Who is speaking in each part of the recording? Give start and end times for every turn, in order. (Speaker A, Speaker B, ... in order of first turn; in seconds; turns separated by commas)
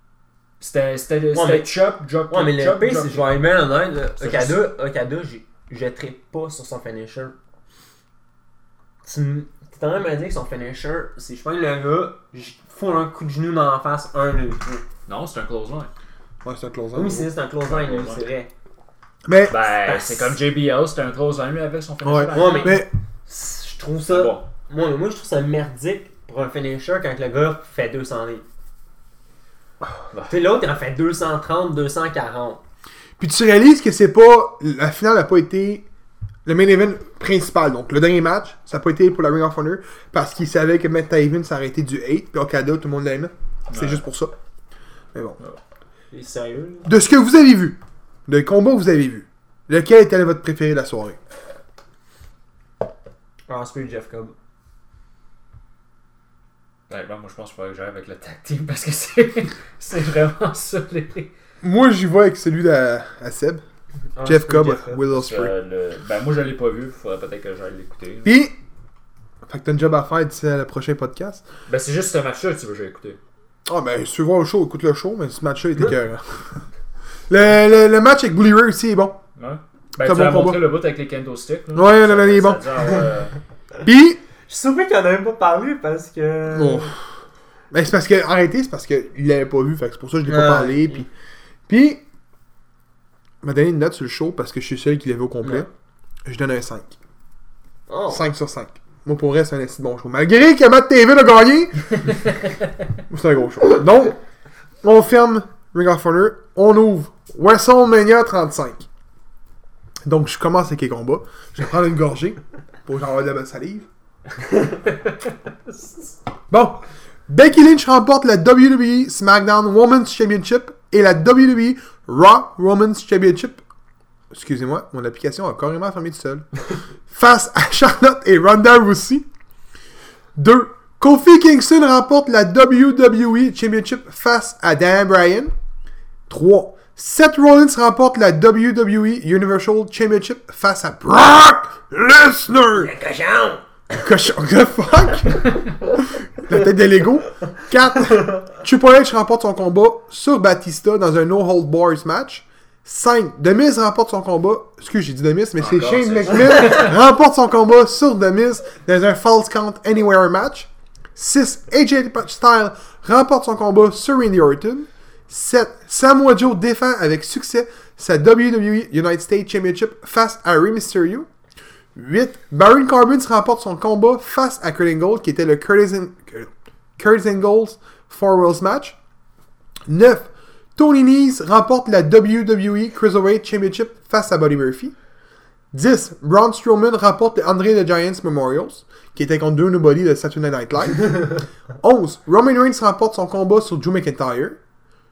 Speaker A: 0.6-3.4, Speaker B: 1.3-1.8, Speaker B: 2.3-7.3, Speaker A: 4.2-4.7, Speaker B: 9.0-14.8, Speaker A: 15.1-15.9, Speaker C: 16.4-17.3, Speaker B: 16.9-18.5, Speaker A: 17.7-18.2, Speaker C: 19.2-19.5, Speaker A: 19.5-22.8, Speaker B: 19.7-20.4, Speaker C: 22.0-22.9, Speaker B: 22.3-28.4, Speaker A: 24.1-24.4, Speaker A: 30.1-30.6, Speaker B: 30.3-32.6, Speaker C: 33.2-35.9, Speaker C: 36.5-44.3, Speaker A: 43.7-44.0, Speaker B: 46.1-46.9, Speaker C: 46.9-51.2, Speaker B: 53.5-54.3, Speaker A: 56.9-61.3, Speaker C: 61.6-63.6, Speaker B: 64.2-65.0, Speaker C: 64.2-65.5, Speaker A: 65.1-68.3, Speaker C: 68.2-68.5, Speaker C: 69.4-71.4, Speaker A: 71.7-73.2, Speaker C: 73.7-76.6, Speaker C: 77.3-79.2, Speaker A: 79.3-83.3, Speaker C: 80.0-80.6, Speaker C: 81.7-82.7, Speaker C: 83.8-84.2, Speaker B: 84.5-86.9, Speaker C: 86.5-86.9, Speaker C: 87.7-91.1, Speaker B: 90.3-91.0, Speaker C: 91.7-92.0, Speaker C: 93.4-95.7, Speaker C: 96.2-96.9, Speaker B: 97.9-98.2, Speaker C: 98.1-102.2, Speaker C: 103.1-104.2, Speaker C: 104.8-108.8, Speaker C: 110.0-113.9, Speaker B: 115.8-116.1, Speaker C: 116.5-123.6, Speaker C: 124.3-126.5, Speaker C: 127.1-129.2, Speaker C: 130.3-135.5, Speaker C: 136.3-142.9, Speaker B: 142.7-143.6, Speaker C: 143.9-171.3, Speaker A: 155.6-156.9, Speaker C: 171.9-178.9, Speaker C: 179.9-184.9, Speaker C: 185.7-194.6